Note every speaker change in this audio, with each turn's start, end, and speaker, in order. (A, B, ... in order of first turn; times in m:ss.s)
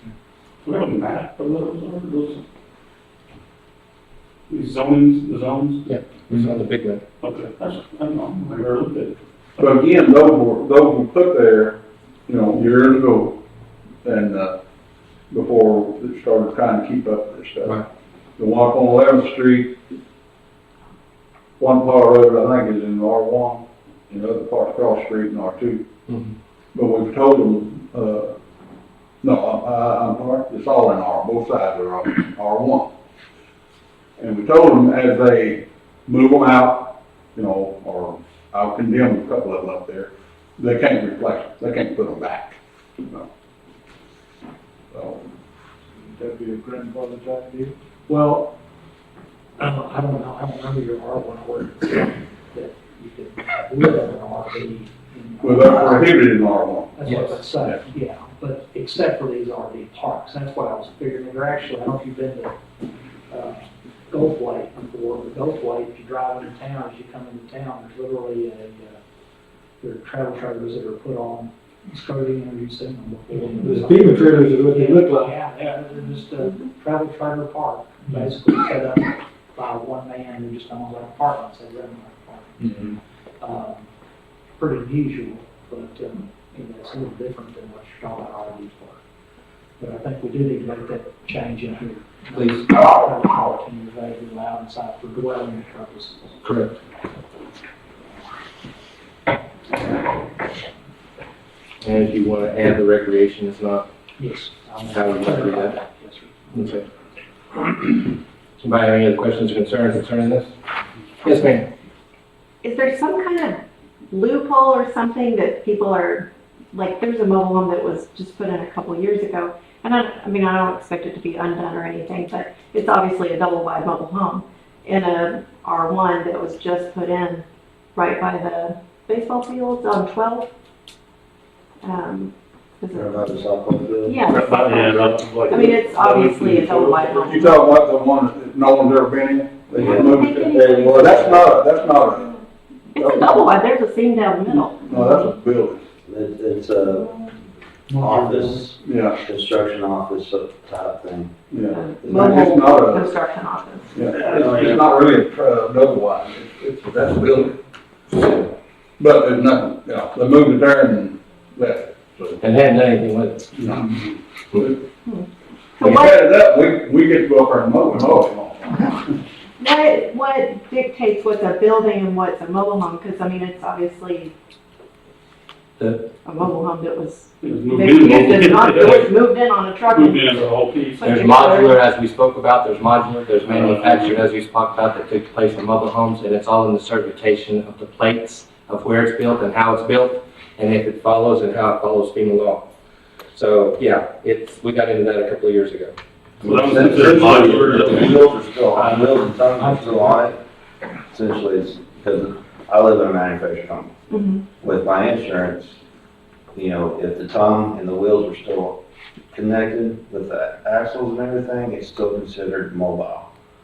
0:00.6-0:02.4 A
0:04.5-0:05.9 A
0:05.8-0:07.0 B
0:07.2-0:09.7 A
0:09.6-0:13.4 C
0:14.0-0:14.6 C
0:15.3-0:17.8 C
0:18.4-0:19.8 C
0:21.6-0:25.8 C
0:26.1-0:26.3 B
0:26.7-0:28.3 C
0:29.2-0:32.9 C
0:34.2-0:43.3 C
0:44.9-0:45.3 C
0:46.2-0:47.7 D
0:48.1-0:48.5 E
0:49.6-0:56.2 E
0:55.4-0:57.1 C
0:57.0-1:02.5 E
1:03.3-1:09.0 E
1:09.8-1:23.9 E
1:13.6-1:15.3 D
1:24.6-1:29.0 E
1:29.8-1:36.4 E
1:32.3-1:32.6 B
1:36.4-1:36.8 B
1:41.8-1:43.8 B
1:44.2-1:46.8 E
1:44.9-1:45.8 B
1:46.5-1:46.8 B
1:48.6-1:50.5 B
1:51.2-1:51.7 B
1:52.6-2:10.5 F
2:11.8-2:13.2 F
2:12.9-2:14.2 G
2:14.0-2:17.6 F
2:14.3-2:17.3 A
2:17.3-2:22.4 C
2:19.8-2:21.5 G
2:19.8-2:21.1 F
2:22.9-2:25.3 F
2:23.0-2:23.5 C
2:24.8-2:25.8 C
2:26.0-2:27.1 G
2:28.0-2:31.3 G
2:28.8-2:29.2 C
2:31.5-2:33.1 C
2:31.7-2:33.9 F
2:33.9-2:37.6 C
2:34.1-2:34.8 G
2:38.1-2:42.4 C
2:42.4-2:43.5 B
2:43.5-2:44.8 C
2:45.8-2:46.2 F
2:45.8-2:49.0 C
2:49.6-2:54.3 F
2:55.8-2:56.1 B
2:56.2-3:00.3 F
2:57.4-2:59.1 A
2:59.9-3:01.2 A
3:01.0-3:01.8 F
3:01.0-3:12.7 B
3:03.5-3:04.1 A
3:13.3-3:15.9 B
3:16.4-3:19.1 A
3:16.4-3:20.4 G
3:21.1-3:23.9 G
3:24.1-3:24.4 F
3:24.6-3:25.8 G
3:26.5-3:28.8 G
3:29.3-3:33.3 G